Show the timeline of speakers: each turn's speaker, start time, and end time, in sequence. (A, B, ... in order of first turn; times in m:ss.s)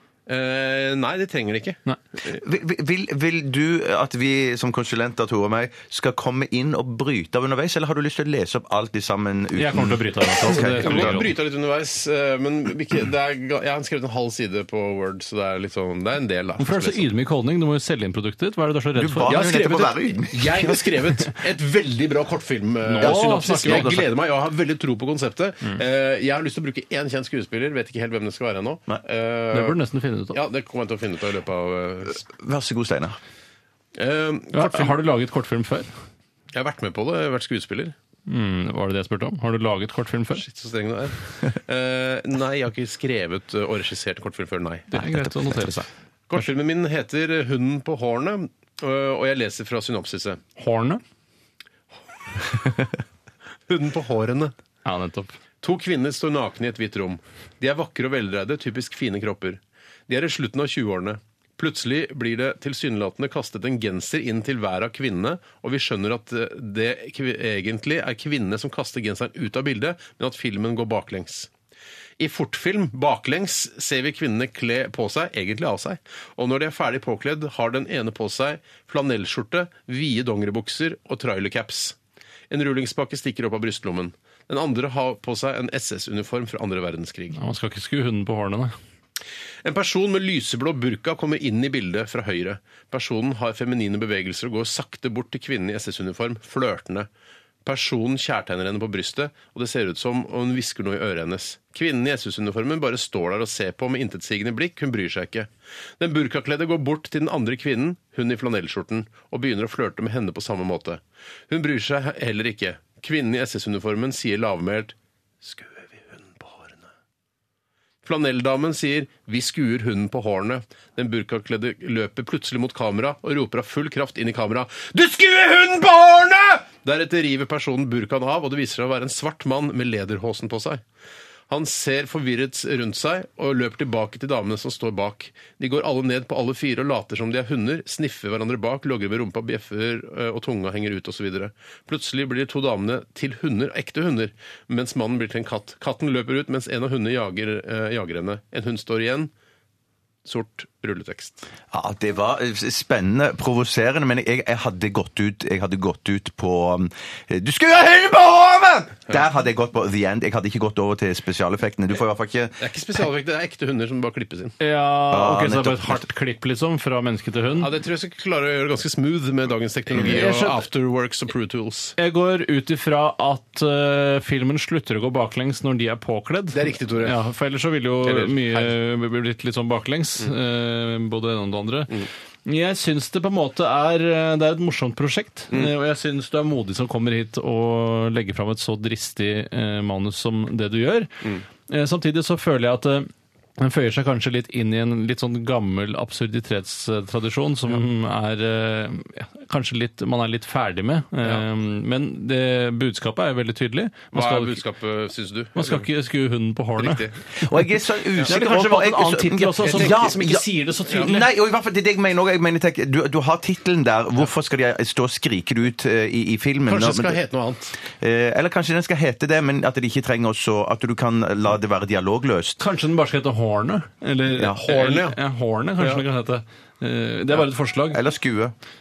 0:00.3-0:01.8 A
0:02.3-0:11.2 B
0:09.5-0:11.3 C
0:10.4-0:17.0 A
0:16.6-0:19.9 C
0:19.0-0:21.1 B
0:19.3-0:29.8 A
0:22.8-0:24.1 C
0:29.5-0:30.4 C
0:30.3-0:32.2 A
0:32.2-0:33.2 B
0:34.0-0:35.0 A
0:34.5-0:35.9 C
0:36.5-0:38.0 A
0:38.3-0:40.4 C
0:40.3-0:44.9 A
0:44.9-0:45.9 C
0:46.3-0:50.4 A
0:50.6-0:51.0 C
0:53.7-0:54.5 A
0:54.8-0:55.4 C
0:55.6-1:11.5 A
1:12.2-1:22.0 A
1:22.5-1:27.4 A
1:27.3-1:28.7 C
1:29.6-1:37.1 A
1:37.6-1:56.9 A
1:58.0-2:10.8 A
2:11.5-2:29.3 A
2:30.2-2:31.4 A
2:31.7-2:42.6 B
2:42.6-2:44.6 A
2:44.6-2:47.7 C
2:45.1-2:46.0 B
2:47.6-2:52.0 A
2:50.0-2:50.6 C
2:52.0-3:24.6 C
2:56.5-2:57.2 A
2:58.0-2:58.8 A
3:24.1-3:25.9 A
3:25.6-3:27.0 C
3:26.8-3:27.2 A
3:27.4-3:37.2 B
3:28.2-3:31.3 C
3:29.6-3:30.2 A
3:36.7-3:37.7 A
3:38.0-3:42.6 B
3:42.6-3:48.0 C
3:44.7-3:45.2 A
3:47.9-3:48.6 B